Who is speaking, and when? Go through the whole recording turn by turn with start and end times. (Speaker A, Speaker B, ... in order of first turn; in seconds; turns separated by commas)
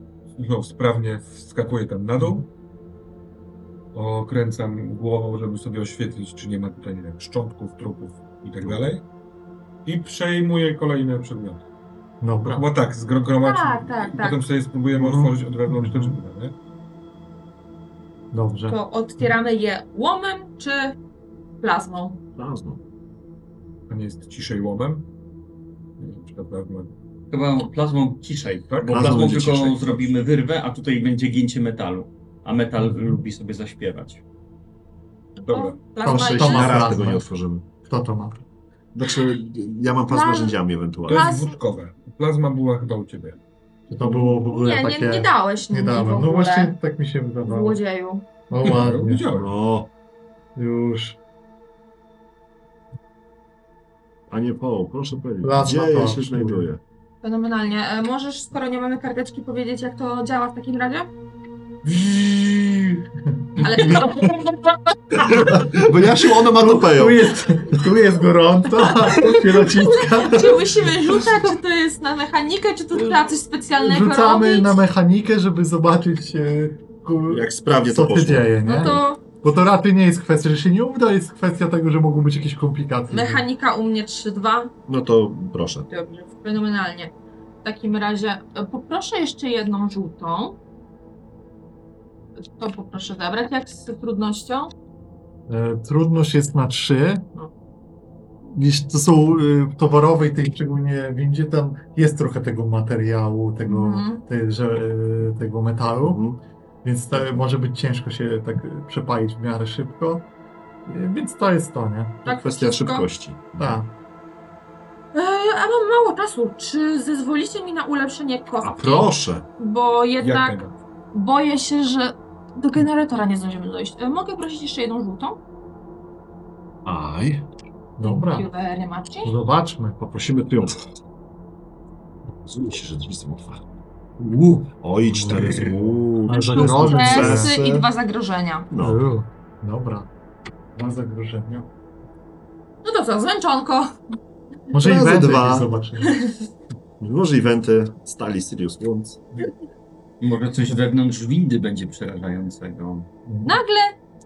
Speaker A: 0.4-2.5, Speaker B: 2.2-2.4, Speaker A: 3.9-9.0, Speaker A: 9.8-11.6, Speaker B: 12.2-12.6, Speaker A: 12.4-16.5, Speaker C: 13.4-14.4, Speaker B: 14.9-16.2, Speaker B: 18.3-19.3, Speaker C: 18.7-21.0, Speaker C: 21.6-22.2, Speaker D: 22.4-22.8, Speaker A: 23.9-25.1, Speaker A: 26.0-26.9, Speaker E: 27.3-34.2, Speaker A: 28.7-29.5, Speaker D: 28.9-30.0, Speaker A: 35.4-35.8, Speaker C: 35.5-36.9, Speaker B: 36.0-37.2, Speaker D: 36.0-37.6, Speaker B: 37.8-38.4, Speaker D: 38.9-41.3, Speaker C: 40.1-41.5, Speaker A: 41.1-43.4, Speaker B: 43.9-47.8, Speaker C: 44.1-46.7, Speaker C: 47.4-48.3, Speaker B: 48.5-49.3, Speaker A: 48.6-49.5, Speaker D: 49.3-49.9, Speaker B: 50.5-51.2, Speaker D: 54.3-56.8, Speaker B: 55.4-56.7, Speaker C: 57.2-61.1, Speaker B: 61.8-64.5, Speaker C: 63.6-64.4, Speaker B: 65.1-70.6, Speaker D: 65.2-67.8, Speaker C: 69.1-74.8, Speaker B: 73.8-83.4, Speaker D: 77.3-78.9, Speaker C: 78.6-79.2, Speaker C: 83.1-84.7, Speaker D: 84.9-85.9, Speaker C: 85.9-87.1, Speaker C: 87.6-90.6, Speaker C: 92.5-94.7, Speaker B: 95.5-97.3, Speaker B: 98.5-106.2, Speaker C: 103.6-104.2, Speaker D: 106.0-106.4, Speaker B: 106.8-110.3, Speaker B: 110.8-112.3, Speaker C: 112.2-113.1, Speaker D: 112.3-113.8, Speaker B: 113.6-113.9, Speaker C: 115.1-120.6, Speaker D: 118.6-119.5, Speaker A: 120.2-120.7, Speaker C: 121.1-125.4, Speaker D: 126.8-127.5, Speaker B: 128.0-128.5, Speaker C: 128.0-129.3, Speaker B: 129.2-130.2, Speaker D: 130.1-130.8, Speaker D: 132.4-133.6, Speaker D: 134.3-137.9, Speaker B: 135.1-137.6, Speaker C: 136.3-138.7, Speaker D: 138.7-139.0, Speaker B: 138.8-140.1, Speaker B: 140.7-141.7, Speaker C: 142.8-143.9, Speaker B: 144.7-146.2, Speaker D: 144.8-145.7, Speaker C: 146.0-146.3, Speaker D: 147.0-149.2, Speaker E: 150.2-153.1, Speaker B: 153.3-153.6, Speaker C: 153.4-153.9